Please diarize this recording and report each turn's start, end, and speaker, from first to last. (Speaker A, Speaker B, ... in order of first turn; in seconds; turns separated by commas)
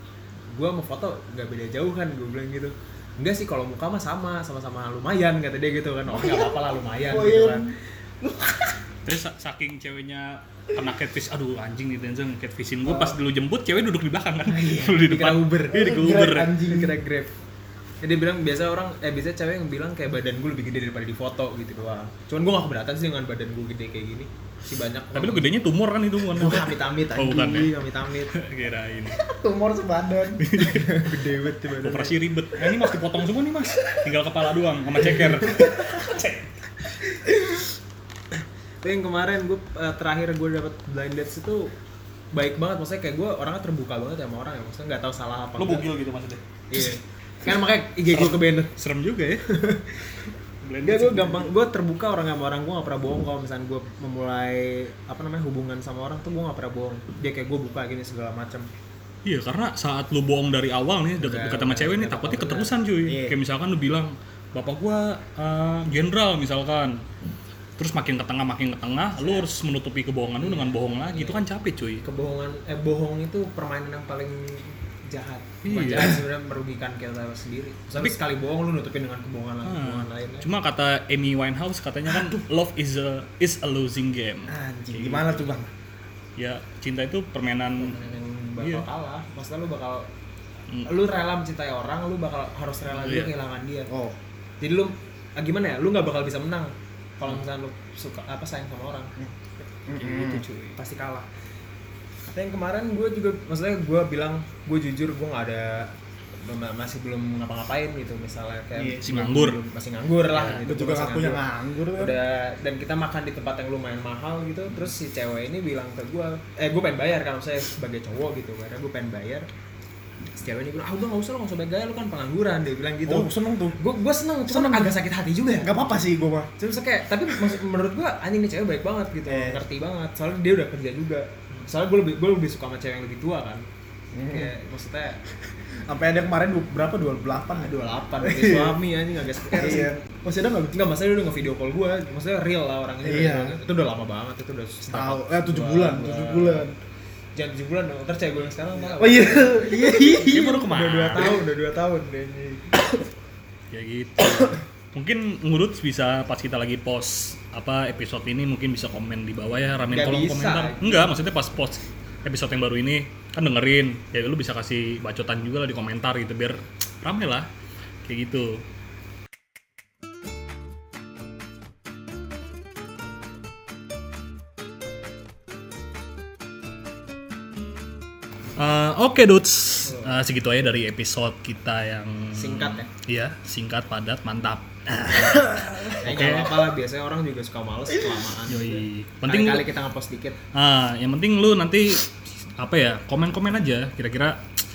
Speaker A: 0.5-7.7, Speaker B: 6.1-8.8, Speaker C: 9.0-16.6, Speaker A: 12.9-13.1, Speaker A: 14.5-16.0, Speaker B: 15.7-17.0, Speaker A: 16.6-17.3, Speaker A: 18.0-25.5, Speaker C: 25.1-29.2, Speaker A: 26.3-28.3, Speaker B: 29.1-30.5, Speaker C: 30.4-31.1, Speaker A: 30.6-32.2, Speaker C: 31.6-36.5, Speaker A: 38.8-41.7, Speaker A: 42.3-45.9, Speaker C: 45.6-46.9, Speaker A: 46.7-48.7, Speaker C: 48.1-49.5, Speaker A: 49.5-50.3, Speaker C: 50.6-51.5, Speaker A: 50.8-58.7, Speaker C: 59.2-67.0, Speaker A: 61.2-62.7, Speaker B: 63.0-63.3, Speaker C: 67.8-72.0, Speaker A: 70.4-71.4, Speaker A: 72.0-80.5, Speaker C: 75.6-76.2, Speaker C: 79.6-85.5, Speaker B: 84.5-85.7, Speaker C: 86.4-88.8, Speaker A: 87.8-90.1, Speaker A: 90.8-93.9, Speaker C: 92.9-93.3, Speaker B: 93.9-94.2, Speaker A: 94.6-99.1, Speaker B: 99.8-100.4, Speaker C: 100.0-100.8, Speaker A: 100.7-101.3, Speaker A: 102.3-111.4, Speaker B: 108.7-109.0, Speaker C: 109.0-109.6, Speaker C: 110.3-110.6, Speaker B: 110.6-112.1, Speaker A: 112.0-119.5, Speaker A: 120.3-125.9, Speaker B: 123.0-123.8, Speaker B: 124.5-125.0, Speaker B: 125.6-126.5, Speaker A: 126.6-133.6, Speaker B: 129.3-129.6, Speaker B: 134.1-134.5, Speaker A: 134.3-135.2, Speaker B: 135.9-138.8, Speaker A: 137.5-139.9, Speaker B: 139.5-140.8, Speaker A: 140.7-146.7, Speaker B: 143.0-143.6, Speaker B: 144.9-146.8, Speaker A: 147.3-152.6, Speaker B: 148.9-150.7, Speaker C: 150.1-151.4, Speaker C: 153.7-167.5, Speaker A: 159.9-161.1, Speaker C: 168.0-168.6, Speaker C: 178.6-186.7, Speaker A: 179.8-180.2, Speaker A: 182.3-182.9, Speaker A: 185.0-190.4, Speaker C: 188.5-189.7, Speaker C: 190.5-194.4